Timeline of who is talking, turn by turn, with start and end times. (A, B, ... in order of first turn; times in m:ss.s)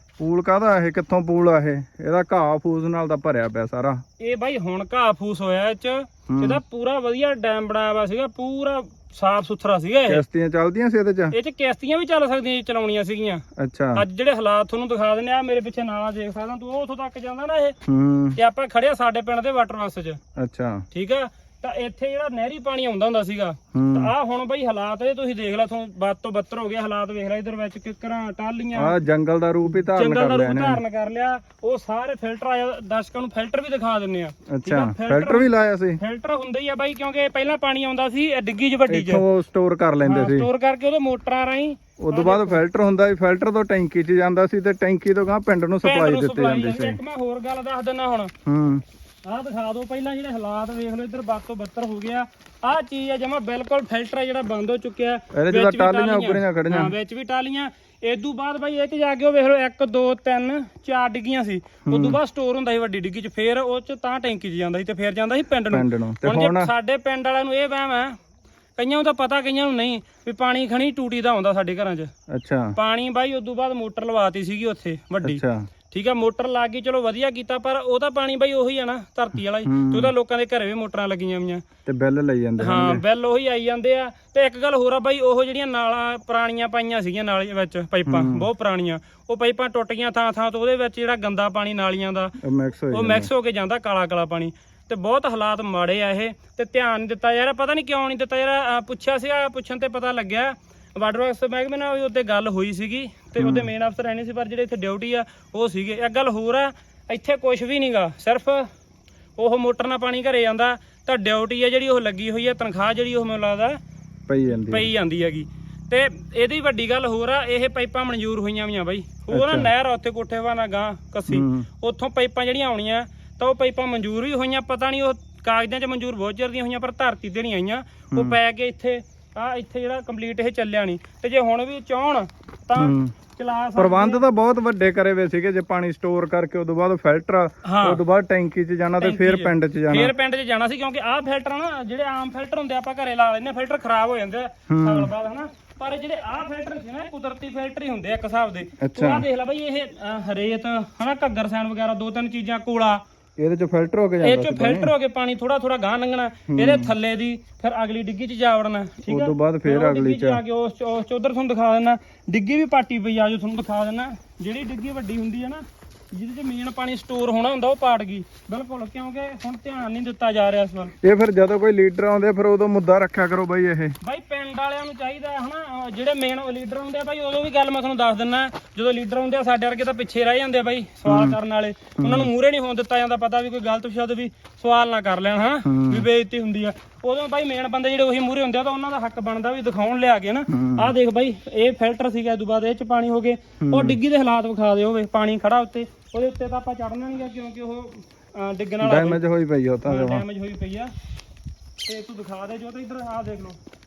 0:00.2-0:04.0 A
0:04.2-0:10.2 B
0:06.3-0:06.6 A
0:10.1-0:11.3 A
0:11.3-0:17.8 B
0:13.6-0:14.0 A
0:17.8-0:18.4 A
0:18.3-0:20.2 B
0:20.4-0:20.8 A
0:20.9-0:28.9 B
0:23.7-0:24.1 A
0:28.7-0:30.8 A
0:29.8-0:39.2 B
0:34.5-0:36.0 A
0:38.9-0:40.5 A
0:40.0-0:42.6 B
0:42.0-0:47.0 A
0:45.8-0:48.3 B
0:48.4-0:48.8 A
0:49.2-1:08.2 B
0:55.3-0:56.9 A
1:01.8-1:02.2 A
1:05.7-1:06.7 A
1:08.8-1:12.1 B
1:12.3-1:12.8 A
1:12.7-1:21.6 B
1:15.2-1:15.7 A
1:19.6-1:20.1 A
1:21.8-1:23.0 A
1:22.6-1:32.4 B
1:28.0-1:28.5 A
1:32.4-1:33.3 A
1:32.9-1:48.7 B
1:43.4-1:43.7 A
1:49.4-1:53.8 B
1:54.3-1:54.9 A
1:54.4-2:14.2 B
1:59.3-1:59.7 A
2:01.3-2:01.7 A
2:12.8-2:13.1 A
2:13.8-2:20.1 A
2:17.6-2:18.0 B
2:19.0-2:33.0 B
2:24.7-2:25.1 A
2:28.8-2:29.2 A
2:33.4-2:34.9 A
2:34.2-2:50.9 B
2:36.5-2:36.9 A
2:39.1-2:40.4 A
2:51.0-2:54.0 A
2:54.0-3:19.2 B
3:01.1-3:01.4 A
3:02.0-3:02.3 A
3:05.6-3:06.0 A
3:10.5-3:10.9 A
3:13.6-3:14.0 A
3:18.8-3:20.2 A
3:19.8-3:20.9 B
3:21.8-3:23.6 B